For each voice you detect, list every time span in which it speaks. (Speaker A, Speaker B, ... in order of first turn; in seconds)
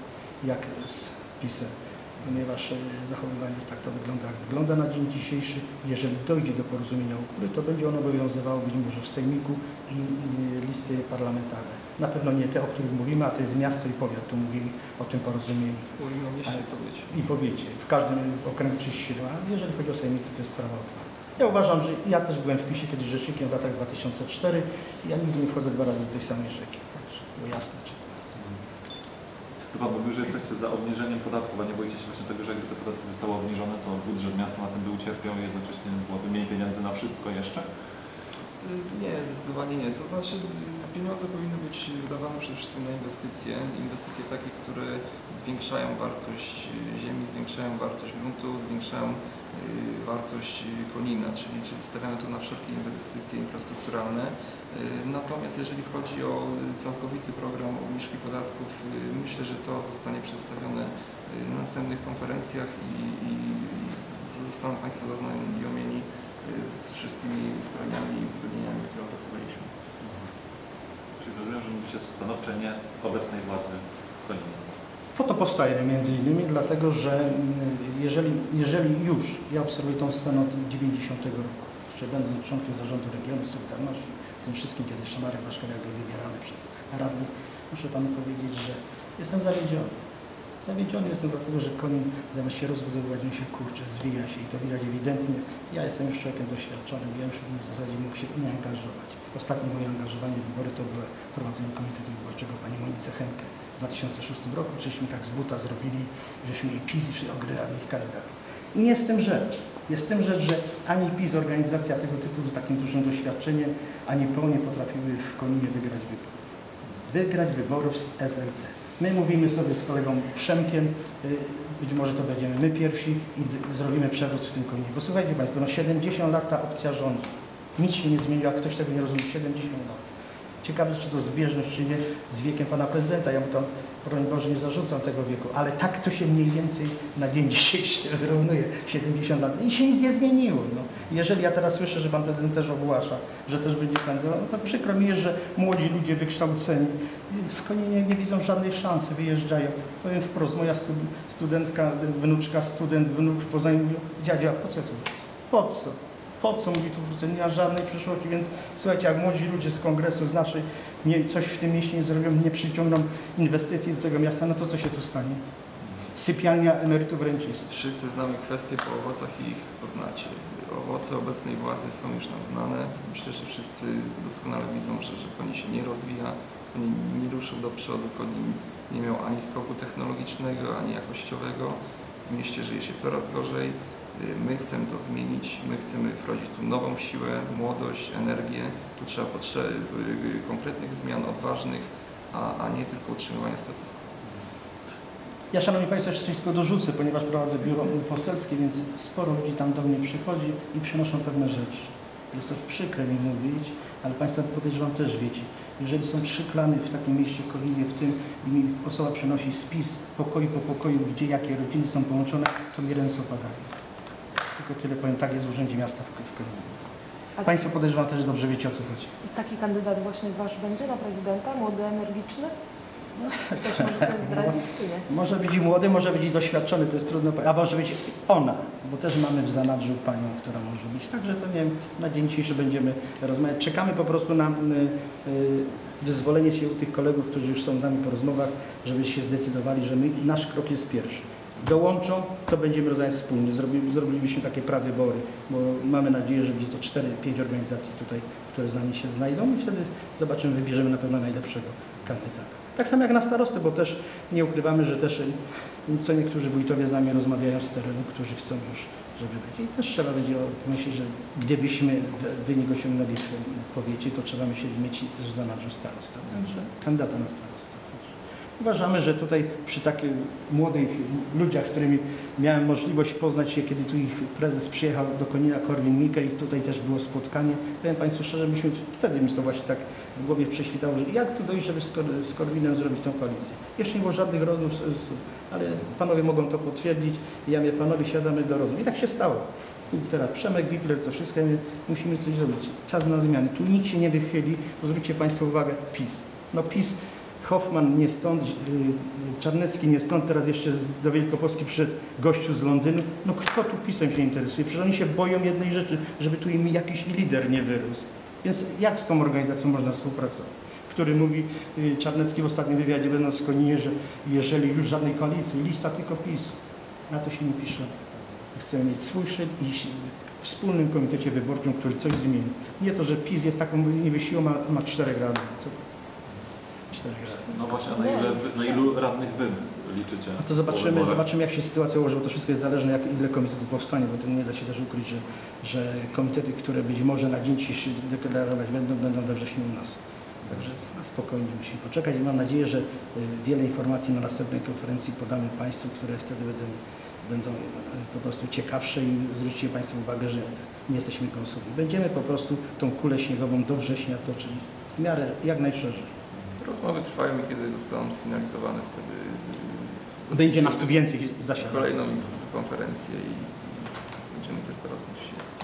Speaker A: 0.4-15.9, 17.1-28.2, 75.2-90.0, 90.6-116.4, 117.1-130.0, 130.6-165.4, 166.1-167.7, 195.5-213.7, 214.6-216.9, 217.4-219.1, 223.2-316.6, 317.1-317.9, 318.5-325.8, 326.9-327.5, 330.4-356.1, 360.3-361.9
Speaker B: 16.0-17.1, 38.6-69.7, 167.7-194.0, 356.6-361.0, 361.6-365.5
Speaker C: 29.7-37.7, 71.2-74.6, 327.5-331.2
Speaker D: 219.2-222.5, 223.6-225.1, 328.0-328.8